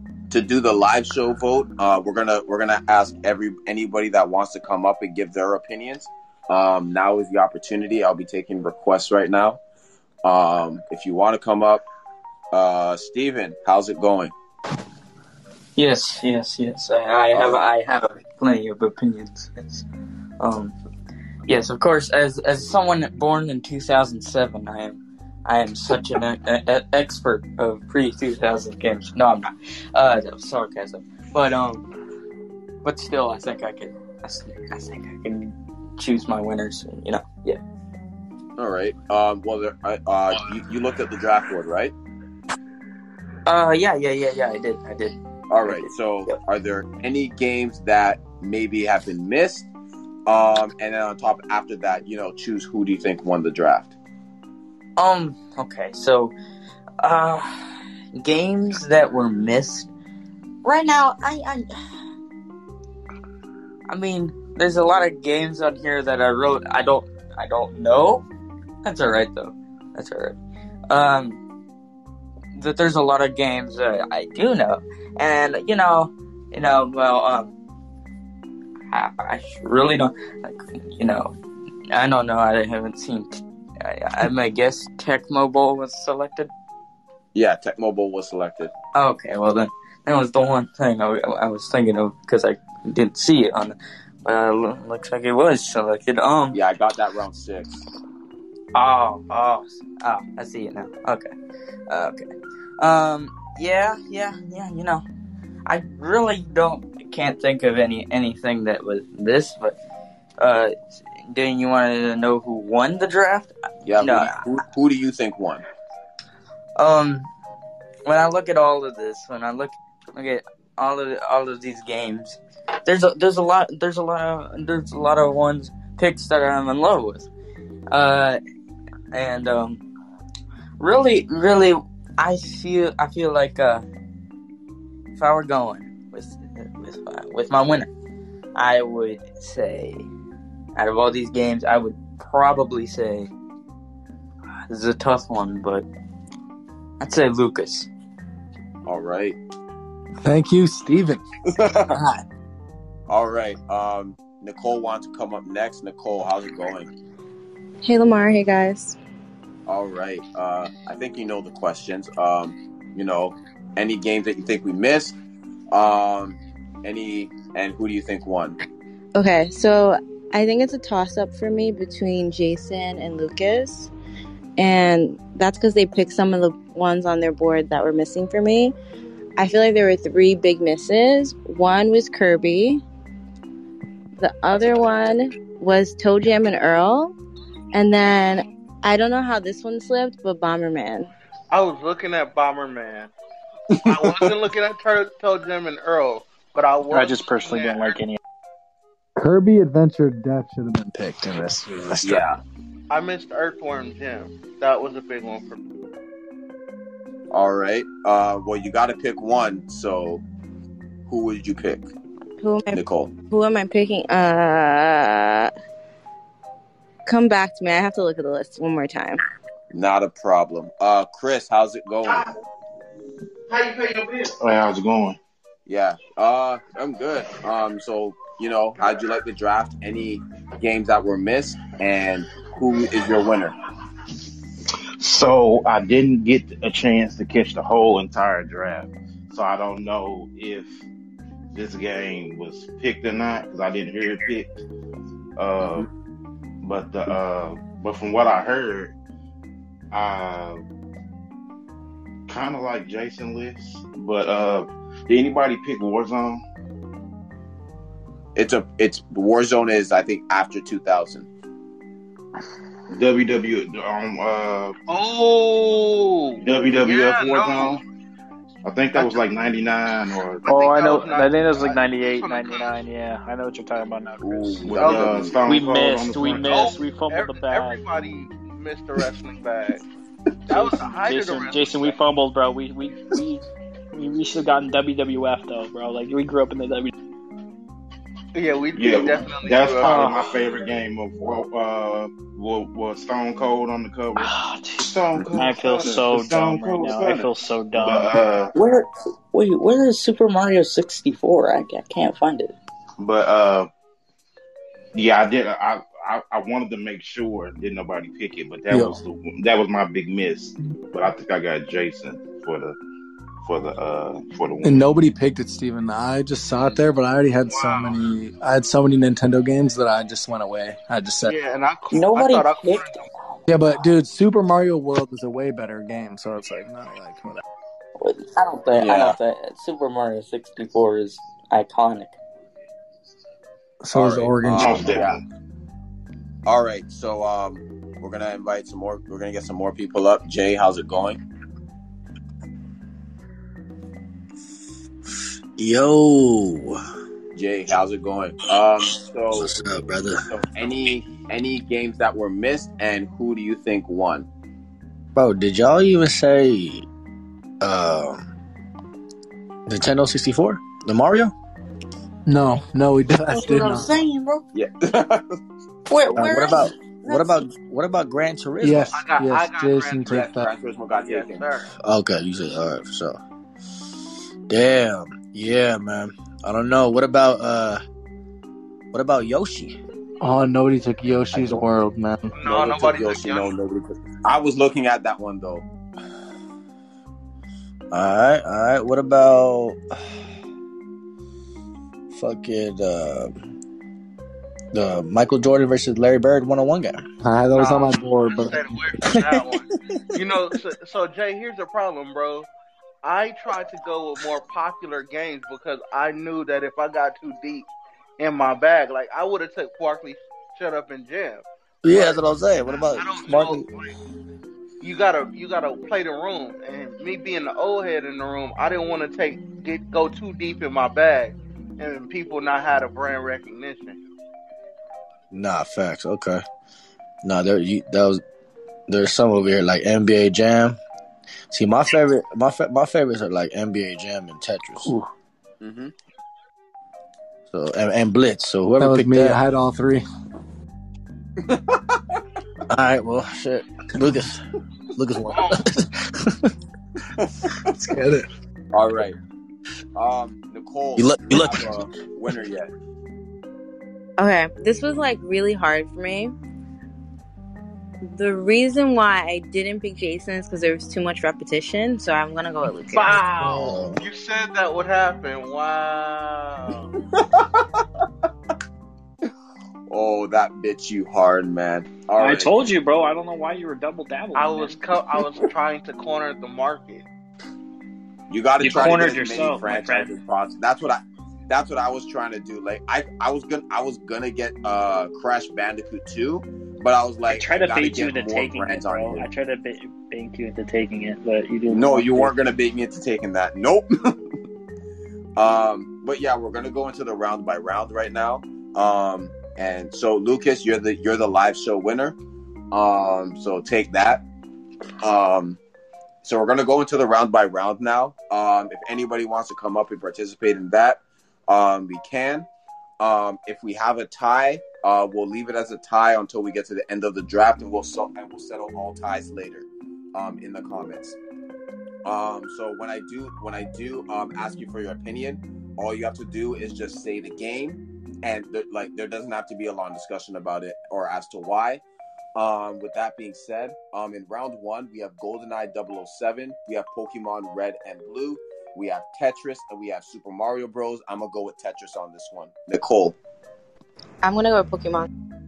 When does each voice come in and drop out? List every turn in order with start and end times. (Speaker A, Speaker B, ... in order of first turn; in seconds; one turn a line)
Speaker A: 0.3-9.6
Speaker A: 10.2-11.8
Speaker A: 12.5-14.3
Speaker B: 15.8-19.9
Speaker A: 17.3-17.7
Speaker B: 20.4-20.7
Speaker B: 21.5-31.9
Speaker B: 32.8-37.6
Speaker A: 38.6-41.9
Speaker B: 43.5-46.4
Speaker A: 45.5-49.7
Speaker A: 50.3-53.9
Speaker B: 55.0-56.3
Speaker B: 57.0-59.9
Speaker B: 60.6-61.7
Speaker B: 63.9-68.2
Speaker B: 68.8-70.4
Speaker B: 70.9-71.4
Speaker B: 72.5-77.5
Speaker B: 78.9-81.4
Speaker B: 81.9-86.5
Speaker A: 87.3-88.7
Speaker B: 88.9-96.6
Speaker A: 96.5-97.8
Speaker B: 98.8-101.3
Speaker B: 101.9-105.0
Speaker B: 105.7-109.8
Speaker B: 110.4-110.7
Speaker B: 111.3-114.5
Speaker A: 113.9-115.6
Speaker B: 116.8-117.3
Speaker B: 118.0-127.3
Speaker B: 127.9-128.4
Speaker B: 129.1-129.8
Speaker B: 130.8-133.8
Speaker B: 135.2-137.9
Speaker B: 138.6-140.1
Speaker B: 140.8-143.3
Speaker B: 144.7-145.9
Speaker B: 147.0-147.9
Speaker A: 148.9-149.4
Speaker C: 150.2-151.2
Speaker A: 151.5-152.0
Speaker A: 153.1-156.9
Speaker D: 157.8-159.0
Speaker A: 159.7-165.2
Speaker A: 165.7-168.6
Speaker D: 169.2-173.9
Speaker D: 174.6-178.7
Speaker D: 179.4-182.8
Speaker D: 184.2-187.1
Speaker D: 187.7-191.1
Speaker E: 191.5-193.1
Speaker E: 193.8-198.0
Speaker F: 196.9-198.2
Speaker C: 199.2-202.2
Speaker A: 202.0-202.4
Speaker E: 202.9-205.6
Speaker A: 207.3-210.2
Speaker A: 211.1-211.9
Speaker D: 212.4-215.5
Speaker A: 212.7-213.1
Speaker D: 217.1-219.2
Speaker A: 219.7-222.3
Speaker G: 223.6-225.2
Speaker A: 225.7-233.6
Speaker G: 235.0-240.8
Speaker G: 241.5-244.5
Speaker G: 245.4-245.9
Speaker G: 246.6-248.9
Speaker G: 249.9-250.6
Speaker G: 252.3-256.4
Speaker A: 258.4-261.3
Speaker G: 262.9-264.8
Speaker E: 264.9-267.8
Speaker G: 266.4-267.8
Speaker G: 268.6-270.4
Speaker E: 269.0-269.2
Speaker E: 270.4-272.7
Speaker F: 270.5-274.7
Speaker A: 274.2-275.4
Speaker G: 274.6-276.6
Speaker E: 274.8-275.1
Speaker F: 275.5-277.8
Speaker E: 276.4-279.8
Speaker E: 280.5-282.0
Speaker F: 280.5-286.9
Speaker E: 288.3-290.4
Speaker G: 288.7-298.5
Speaker F: 289.8-290.4
Speaker F: 294.2-298.1
Speaker B: 298.5-302.6
Speaker G: 303.0-303.7
Speaker G: 304.9-312.8
Speaker C: 308.7-309.0
Speaker G: 313.4-314.9
Speaker C: 314.6-321.4
Speaker E: 317.5-317.9
Speaker E: 321.3-323.1
Speaker B: 321.9-323.0
Speaker C: 323.5-327.4
Speaker B: 328.0-332.2
Speaker A: 328.8-329.2
Speaker C: 333.8-335.0
Speaker A: 333.9-335.2
Speaker G: 334.6-335.2
Speaker A: 336.5-341.2
Speaker H: 345.6-346.8
Speaker A: 347.4-349.5
Speaker H: 349.3-350.4
Speaker A: 350.3-354.3
Speaker H: 355.1-356.9
Speaker H: 357.6-358.3
Speaker H: 359.7-361.3
Speaker C: 362.3-364.0
Speaker B: 363.3-364.4
Speaker A: 364.5-365.4
Speaker B: 365.9-366.6
Speaker H: 366.2-369.1
Speaker C: 368.6-370.5
Speaker E: 368.9-370.3
Speaker A: 370.1-371.6
Speaker E: 371.0-371.7
Speaker H: 371.8-373.2
Speaker H: 374.5-377.8
Speaker H: 378.9-379.8
Speaker C: 380.2-382.3
Speaker A: 381.3-381.6
Speaker E: 382.3-383.5
Speaker A: 382.4-385.6
Speaker H: 387.9-389.8
Speaker H: 392.1-393.4
Speaker H: 394.7-397.0
Speaker C: 397.2-399.2
Speaker E: 397.6-402.5
Speaker E: 403.0-407.7
Speaker E: 408.2-413.7
Speaker H: 411.8-413.7
Speaker E: 414.8-424.0
Speaker H: 425.3-426.4
Speaker H: 427.2-428.2
Speaker H: 428.9-430.8
Speaker H: 431.5-434.9
Speaker A: 435.6-435.9
Speaker H: 437.5-439.4
Speaker C: 438.8-440.1
Speaker A: 441.4-441.8
Speaker H: 442.7-444.4
Speaker H: 444.9-446.5
Speaker E: 445.3-445.6
Speaker C: 447.7-448.3
Speaker A: 448.7-449.2
Speaker A: 450.0-452.7
Speaker H: 451.0-451.9
Speaker D: 454.2-456.3
Speaker D: 458.1-463.2
Speaker E: 462.9-466.9
Speaker H: 463.4-464.0
Speaker A: 469.9-472.5
Speaker F: 472.2-474.8
Speaker E: 474.4-477.0
Speaker A: 478.3-489.3
Speaker F: 478.6-480.1
Speaker F: 487.3-492.4
Speaker A: 491.7-494.1
Speaker A: 495.4-502.1
Speaker A: 502.7-504.2
Speaker A: 505.0-505.6
Speaker A: 506.2-512.5
Speaker A: 513.0-521.2
Speaker A: 522.0-531.8
Speaker A: 532.4-543.2
Speaker D: 544.2-545.1